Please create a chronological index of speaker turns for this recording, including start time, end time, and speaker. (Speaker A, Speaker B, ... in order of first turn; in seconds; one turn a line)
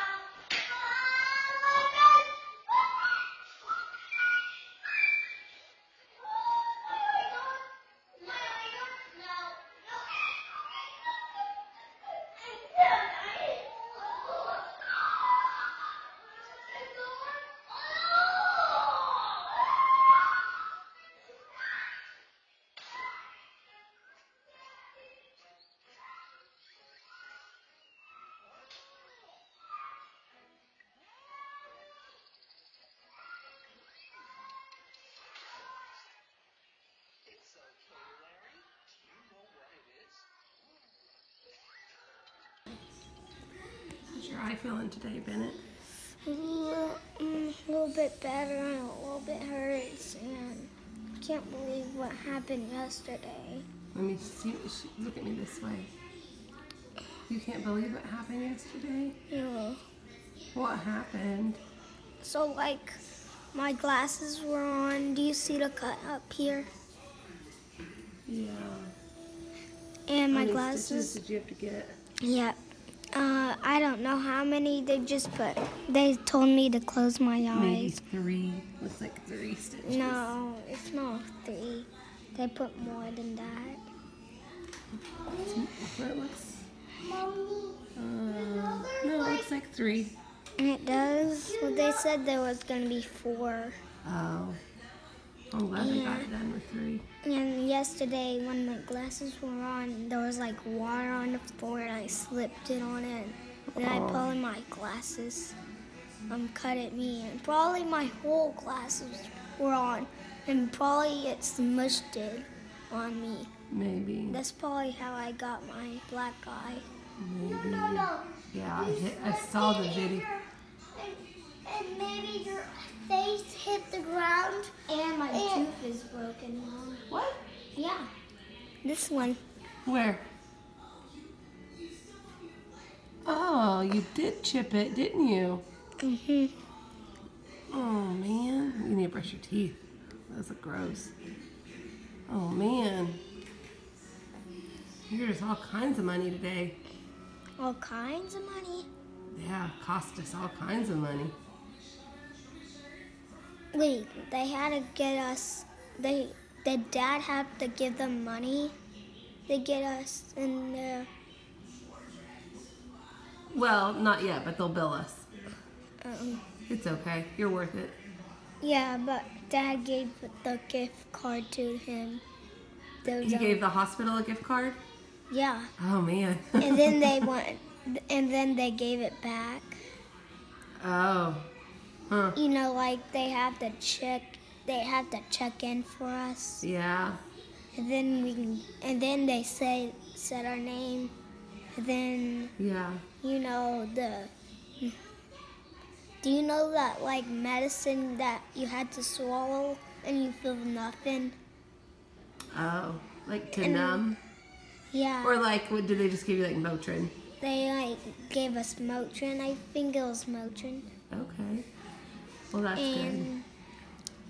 Speaker A: 8.4-9.5
Speaker B: 44.1-45.6
Speaker C: 46.2-53.6
Speaker B: 53.9-55.9
Speaker B: 57.3-59.1
Speaker C: 59.3-59.8
Speaker B: 60.5-61.6
Speaker C: 62.2-63.0
Speaker C: 63.5-66.7
Speaker B: 68.2-68.9
Speaker C: 70.1-71.2
Speaker B: 70.3-72.0
Speaker C: 72.2-72.6
Speaker C: 73.1-78.0
Speaker B: 77.5-80.3
Speaker C: 79.8-83.8
Speaker A: 85.3-85.5
Speaker B: 85.5-86.7
Speaker A: 87.0-89.5
Speaker B: 87.9-90.1
Speaker C: 90.6-93.8
Speaker A: 90.9-92.0
Speaker B: 94.0-94.6
Speaker B: 95.5-97.0
Speaker C: 95.7-96.3
Speaker C: 97.2-105.5
Speaker B: 103.7-104.3
Speaker C: 106.3-113.5
Speaker B: 113.7-114.4
Speaker C: 114.3-116.9
Speaker B: 117.2-120.2
Speaker A: 117.4-125.7
Speaker C: 124.9-127.0
Speaker B: 127.1-127.4
Speaker C: 127.8-128.1
Speaker C: 128.8-129.4
Speaker B: 129.8-130.2
Speaker B: 133.2-135.6
Speaker C: 136.0-136.5
Speaker B: 137.7-141.1
Speaker B: 142.3-143.2
Speaker B: 145.1-146.8
Speaker C: 147.6-148.9
Speaker B: 149.3-151.3
Speaker C: 153.7-158.7
Speaker C: 159.5-161.1
Speaker B: 163.5-165.2
Speaker C: 166.0-166.4
Speaker B: 166.7-168.0
Speaker C: 168.6-172.2
Speaker C: 173.0-173.6
Speaker B: 173.2-174.8
Speaker C: 175.3-175.7
Speaker B: 175.8-177.3
Speaker C: 176.6-179.8
Speaker B: 180.8-181.5
Speaker B: 182.1-182.4
Speaker C: 182.3-186.6
Speaker B: 186.6-187.2
Speaker C: 187.7-191.1
Speaker C: 191.7-192.5
Speaker B: 192.6-193.0
Speaker C: 193.2-194.9
Speaker C: 196.2-201.3
Speaker B: 202.5-204.2
Speaker C: 203.5-204.0
Speaker C: 204.9-205.4
Speaker B: 205.2-207.1
Speaker C: 207.4-210.9
Speaker B: 211.1-211.7
Speaker B: 212.5-213.3
Speaker C: 212.7-213.5